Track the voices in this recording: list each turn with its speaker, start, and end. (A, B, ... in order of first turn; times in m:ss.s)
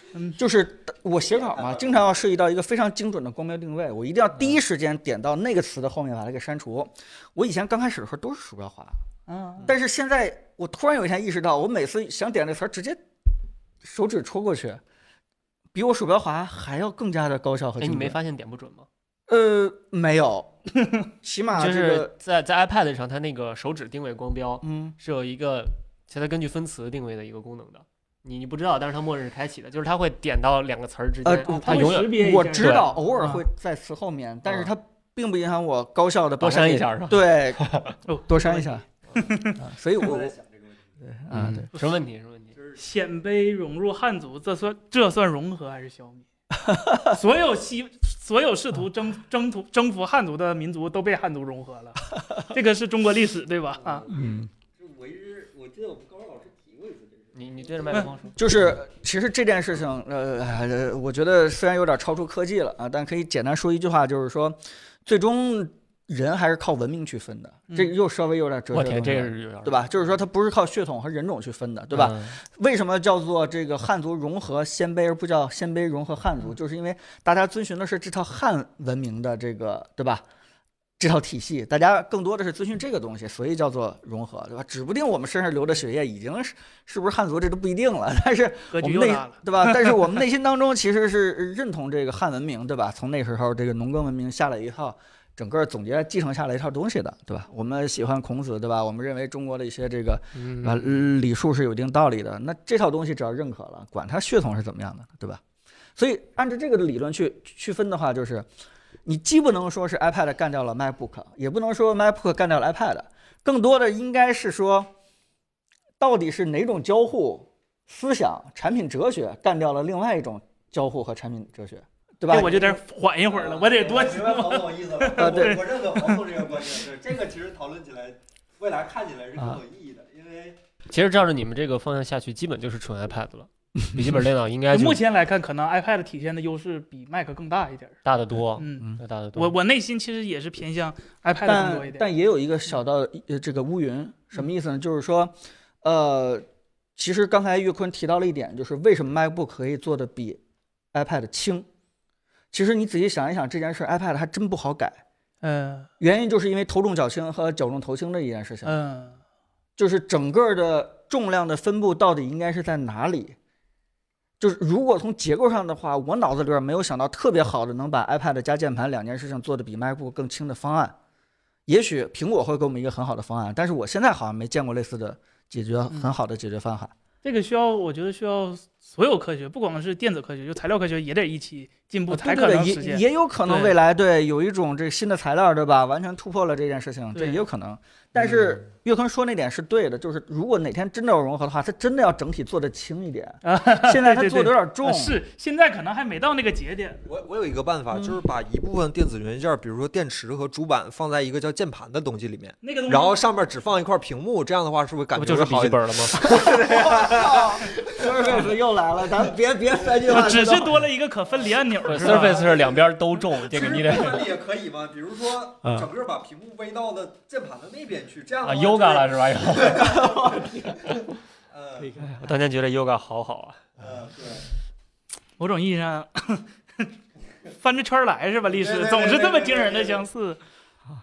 0:00.1-0:00.4 A
0:00.4-0:09.0 B
0:01.3-0:02.1 C
0:09.3-0:09.7 A
0:09.6-0:13.0 B
0:13.8-0:14.8 B
0:15.7-0:18.2 B
0:17.8-0:18.9 D
0:19.3-0:20.6 B
0:21.2-0:22.1 B
0:21.6-0:32.9 D
0:24.6-0:24.9 B
0:31.2-0:37.6 B
0:31.4-0:33.4 A
0:34.4-0:34.7 D
0:36.4-0:38.0 D
0:38.1-0:39.6 A
0:38.3-0:38.8 B
0:39.6-0:40.3 B
0:40.0-0:40.8 C
0:41.0-0:41.7 B
0:41.3-0:42.5 D
0:42.7-0:46.2 A
0:46.6-0:47.2 B
0:47.1-0:54.1 A
0:53.8-0:57.9 C
0:54.1-0:54.5 B
0:57.3-0:58.4 D
0:58.4-1:20.2 B
1:08.7-1:10.1 D
1:11.9-1:12.4 D
1:21.0-1:45.4 B
1:28.7-1:29.9 A
1:40.3-1:41.0 D
1:46.0-1:48.5 B
1:49.0-1:54.9 B
1:56.0-2:02.8 B
2:02.3-2:06.3 A
2:03.3-2:10.6 C
2:05.2-2:05.6 B
2:10.9-2:15.0 D
2:14.7-2:18.0 A
2:18.0-2:19.5 D
2:18.6-2:22.0 A
2:21.4-2:26.4 B
2:27.0-2:30.4 B
2:30.9-2:31.7 B
2:32.5-2:35.0 B
2:35.4-2:35.9 A
2:36.0-2:38.8 B
2:38.6-2:39.2 A
2:39.8-2:43.4 B
2:44.4-2:50.9 B
2:51.7-2:56.9 B
2:57.2-3:03.7 A
3:02.1-3:15.2 B
3:07.1-3:07.4 A
3:13.4-3:17.0 A
3:17.1-3:28.5 C
3:17.9-3:18.2 B
3:22.6-3:23.2 A
3:25.2-3:26.2 D
3:26.2-3:30.8 B
3:30.1-3:32.5 A
3:31.3-3:32.8 C
3:31.8-3:34.3 D
3:33.4-3:41.0 C
3:38.4-3:40.0 D
3:40.0-3:40.8 B
3:41.5-3:41.9 C
3:41.8-3:42.3 B
3:42.1-3:43.6 D
3:43.8-3:44.5 C
3:45.4-3:46.9 A
3:47.5-3:50.4 A
3:48.5-3:50.0 C